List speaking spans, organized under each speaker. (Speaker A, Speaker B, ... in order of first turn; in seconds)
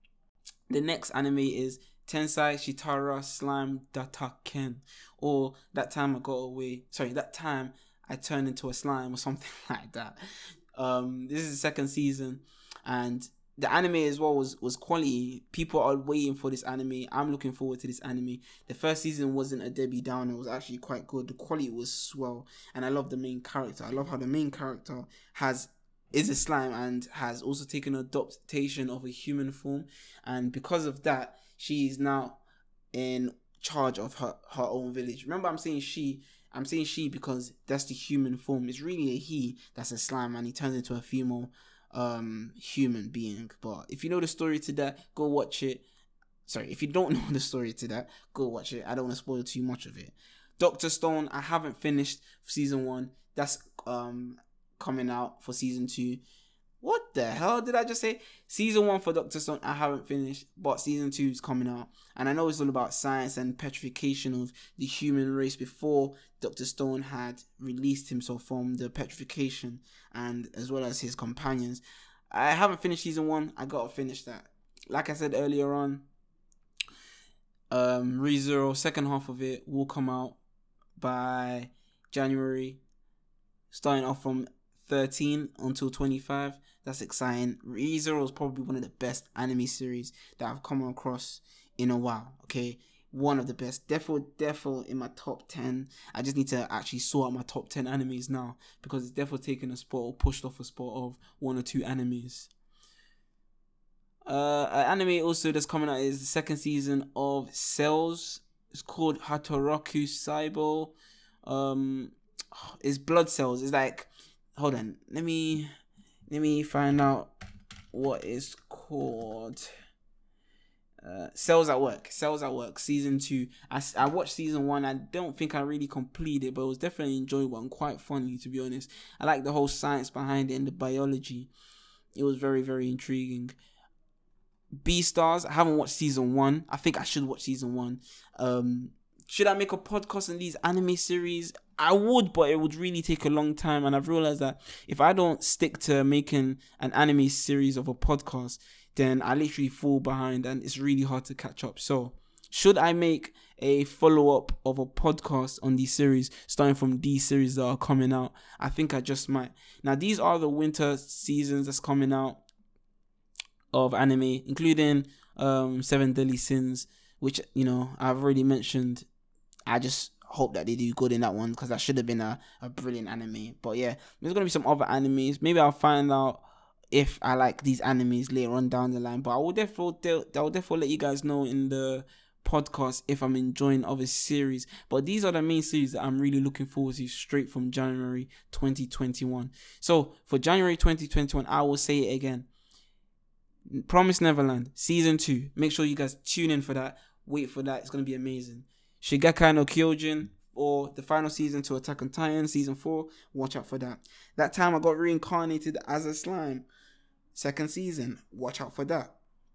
Speaker A: 0.7-10.2, 10.8-32.4, 32.9-45.9, 46.5-56.2, 56.8-76.0, 77.7-80.4, 81.0-82.8, 83.7-102.5, 104.3-115.7, 116.3-117.3, 117.9-119.7, 121.0-131.5, 132.2-133.6, 134.8-162.4, 163.7-169.1, 169.7-192.5, 193.7-206.7, 207.3-209.1